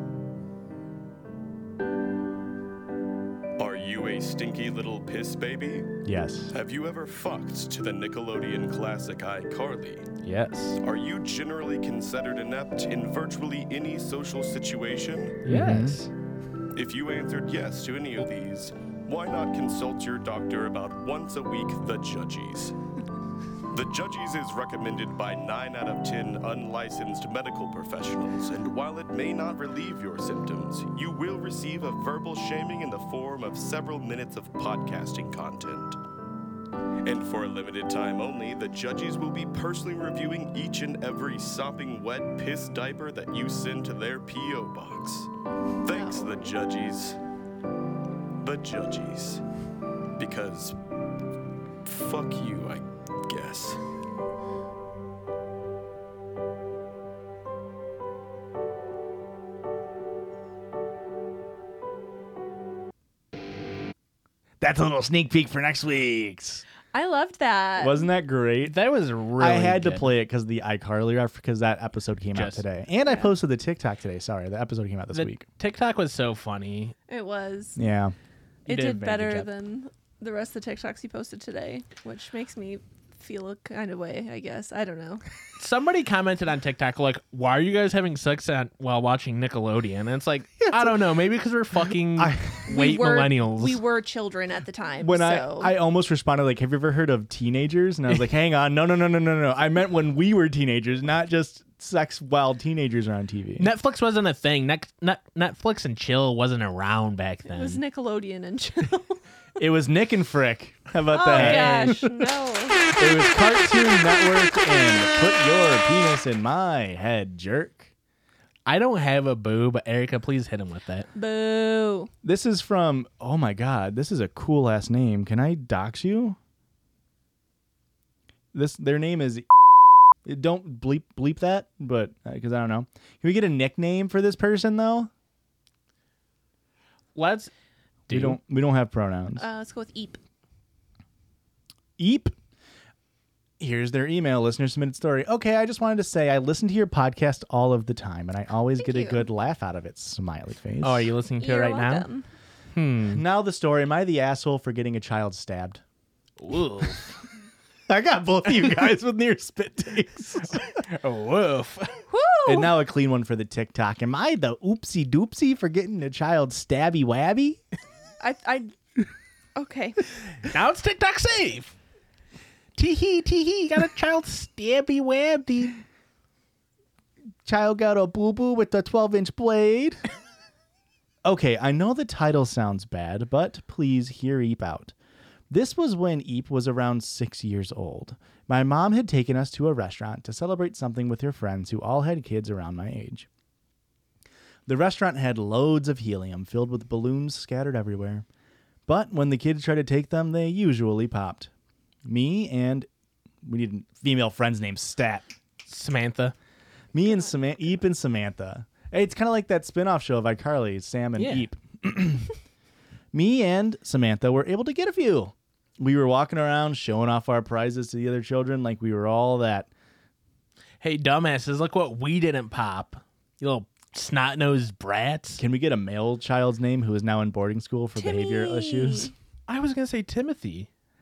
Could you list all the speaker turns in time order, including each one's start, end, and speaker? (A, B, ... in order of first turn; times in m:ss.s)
0:03.6-0:06.0 A
0:06.0-0:06.5 B
0:06.5-0:10.1 A
0:10.2-0:10.8 C
0:10.8-0:15.4 A
0:15.4-0:16.1 C
0:15.5-0:16.0 B
0:16.7-0:22.8 A
0:23.7-0:36.0 A
0:37.0-0:45.3 A
0:45.8-0:47.2 A
0:45.8-0:46.5 D
0:48.4-0:49.4 A
0:50.2-0:50.8 A
0:51.8-0:53.8 A
1:04.6-1:06.6 B
1:06.9-1:08.1 D
1:07.8-1:08.8 B
1:08.6-1:10.1 C
1:09.4-1:15.4 B
1:12.3-1:12.6 C
1:13.0-1:13.3 D
1:15.1-1:16.9 C
1:17.1-1:17.8 D
1:17.8-1:18.1 B
1:18.6-1:25.2 D
1:18.7-1:19.5 C
1:25.6-1:33.8 C
1:30.6-1:31.1 B
1:32.2-1:32.7 B
1:32.7-1:35.7 D
1:35.0-1:43.7 B
1:43.6-1:47.8 C
1:47.5-1:49.2 D
1:49.6-1:52.2 B
1:51.1-1:52.8 D
1:51.3-1:52.0 C
1:52.9-1:57.9 B
1:58.6-2:01.1 C
2:01.1-2:02.1 D
2:02.2-2:06.4 B
2:08.5-2:15.1 B
2:17.1-2:17.5 C
2:18.1-2:18.4 C
2:18.1-2:19.4 B
2:19.4-2:20.2 D
2:22.0-2:22.3 B
2:23.6-2:31.1 B
2:28.8-2:29.2 D
2:30.8-2:32.1 C
2:31.4-2:32.3 D
2:32.7-2:33.2 C
2:33.1-2:35.8 B
2:36.4-2:37.2 C
2:37.9-2:40.6 B
2:40.7-2:42.0 C
2:42.1-2:42.7 D
2:42.4-2:47.6 B
2:48.2-2:48.7 D
2:49.6-2:50.0 D
2:50.4-2:51.7 C
2:52.8-2:55.8 C
2:57.4-3:00.0 B
3:01.2-3:04.9 B
3:05.5-3:13.3 B
3:14.6-3:18.2 B
3:18.9-3:21.5 B
3:22.0-3:22.9 B
3:23.4-3:25.3 B
3:25.6-3:26.3 C
3:26.9-3:32.3 B
3:27.0-3:27.3 D
3:31.2-3:31.5 C
3:33.1-3:39.7 B
3:40.8-3:45.4 C
3:45.4-3:49.1 B
3:48.0-3:49.1 D
3:49.5-3:50.7 C